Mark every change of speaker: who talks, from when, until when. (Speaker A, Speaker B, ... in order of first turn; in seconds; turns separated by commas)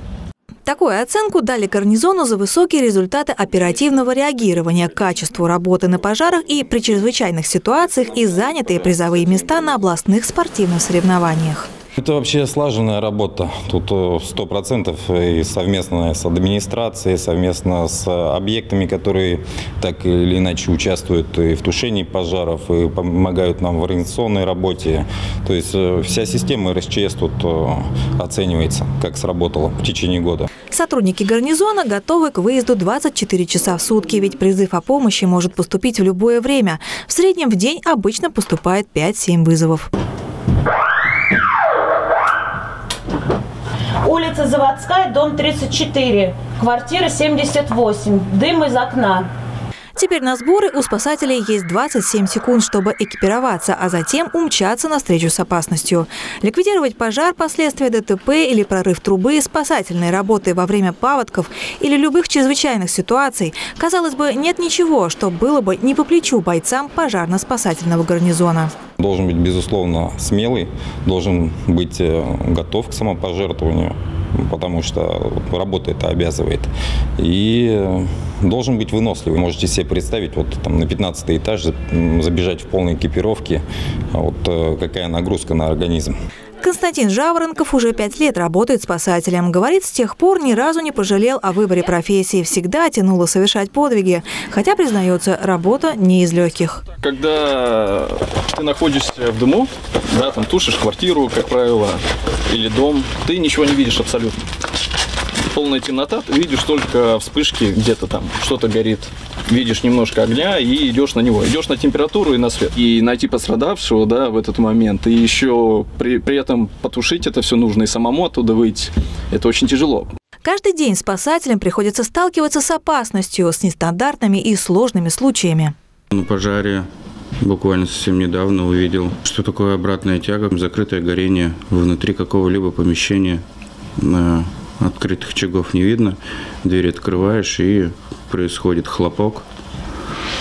Speaker A: 0.7-11.7, Speaker B: 12.0-30.5, Speaker A: 30.7-39.9, Speaker C: 44.0-49.3, Speaker A: 50.0-68.7, Speaker B: 69.0-86.1, Speaker A: 86.6-96.8, Speaker D: 97.0-104.4, Speaker D: 105.5-120.1, Speaker A: 120.5-125.7, Speaker E: 126.1-126.9, Speaker E: 127.4-133.4, Speaker E: 134.0-139.4